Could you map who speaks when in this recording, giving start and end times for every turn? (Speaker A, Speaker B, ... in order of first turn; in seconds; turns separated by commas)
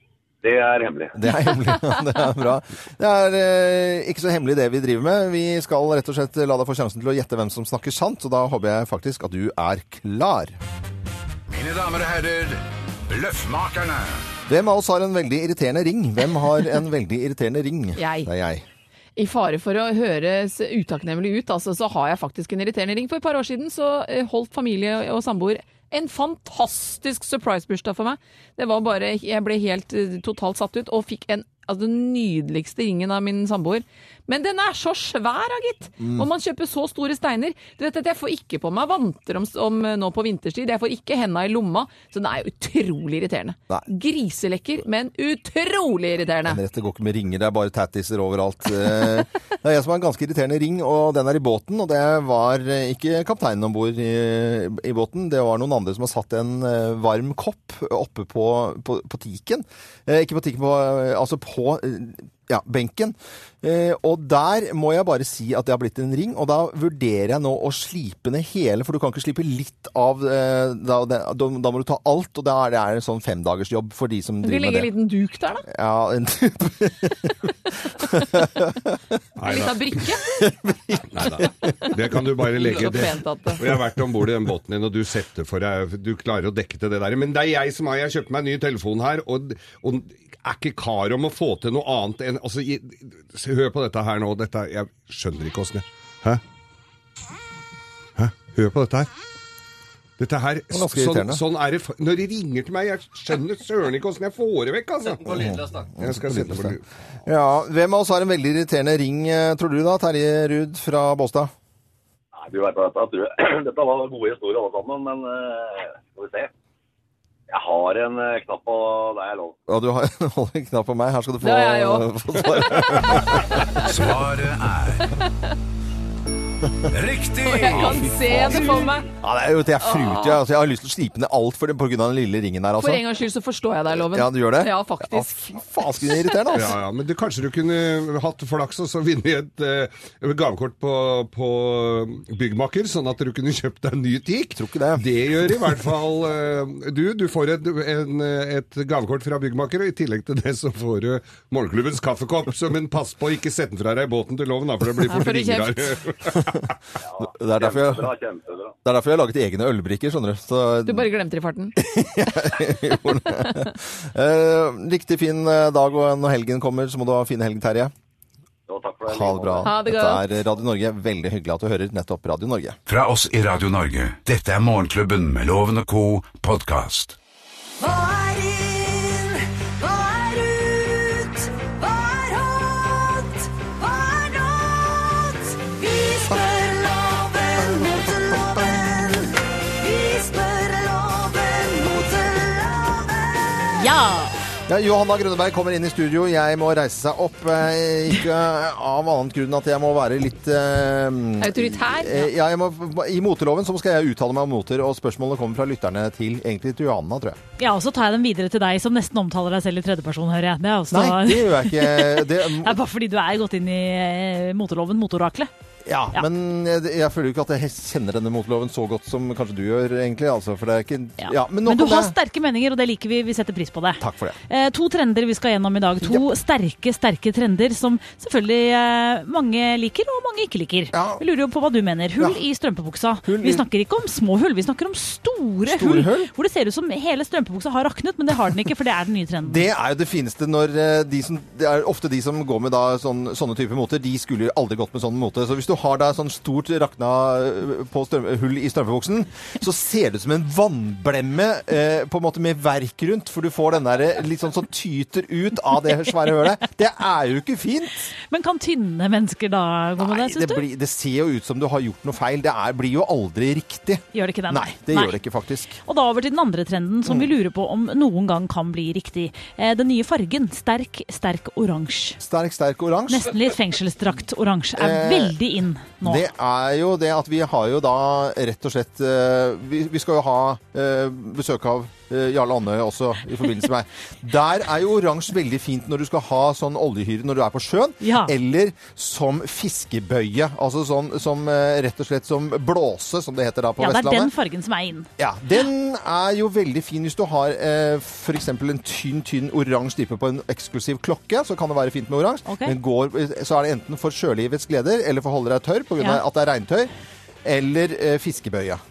Speaker A: 0.4-1.2, Speaker B: 1.1-10.6, Speaker C: 11.5-14.2, Speaker B: 14.5-18.6, Speaker D: 18.0-18.3, Speaker D: 19.2-46.6, Speaker B: 36.0-36.3, Speaker B: 46.5-74.9, Speaker D: 74.4-75.6, Speaker B: 75.7-79.0, Speaker E: 79.4-79.8, Speaker D: 79.5-80.2, Speaker B: 80.2-82.0, Speaker E: 81.1-96.4, Speaker D: 82.6-83.6, Speaker E: 98.2-99.1, Speaker E: 100.2-106.8, Speaker B: 100.7-101.4, Speaker B: 105.3-111.5, Speaker A: 112.4-116.5, Speaker A: 117.5-119.6, Speaker B: 119.7-123.4, Speaker D: 121.4-123.8, Speaker C: 123.8-125.1, Speaker C: 126.9-128.8, Speaker D: 127.4-129.1, Speaker B: 128.3-128.6, Speaker B: 129.1-133.0, Speaker D: 129.8-130.4, Speaker D: 132.8-135.3, Speaker B: 133.9-136.8, Speaker E: 136.5-156.7, Speaker B: 144.5-145.1, Speaker D: 155.1-155.9, Speaker A: 157.0-158.8, Speaker B: 157.3-158.1, Speaker B: 158.8-161.1, Speaker D: 160.9-161.8, Speaker B: 161.8-167.9, Speaker A: 168.7-169.7, Speaker B: 169.1-172.8, Speaker D: 169.7-170.2, Speaker C: 172.9-177.2, Speaker F: 177.8-193.9, Speaker D: 193.8-194.2, Speaker G: 194.0-194.3, Speaker B: 194.7-207.4, Speaker D: 201.4-202.3, Speaker G: 207.6-215.5, Speaker B: 210.9-212.8, Speaker B: 215.9-222.2, Speaker G: 221.2-239.7, Speaker B: 224.0-224.4, Speaker B: 226.0-226.3, Speaker B: 230.9-231.2, Speaker B: 233.2-233.7, Speaker B: 235.7-236.3, Speaker B: 239.4-258.1, Speaker G: 258.3-260.6, Speaker B: 260.0-265.8, Speaker G: 264.1-265.1, Speaker G: 265.8-272.2, Speaker B: 267.1-267.3, Speaker B: 272.2-273.4, Speaker G: 273.1-276.2, Speaker B: 274.8-275.4, Speaker B: 276.0-294.3, Speaker G: 288.0-288.3, Speaker G: 293.8-295.1, Speaker B: 295.2-306.9, Speaker G: 302.5-302.8, Speaker B: 307.4-308.8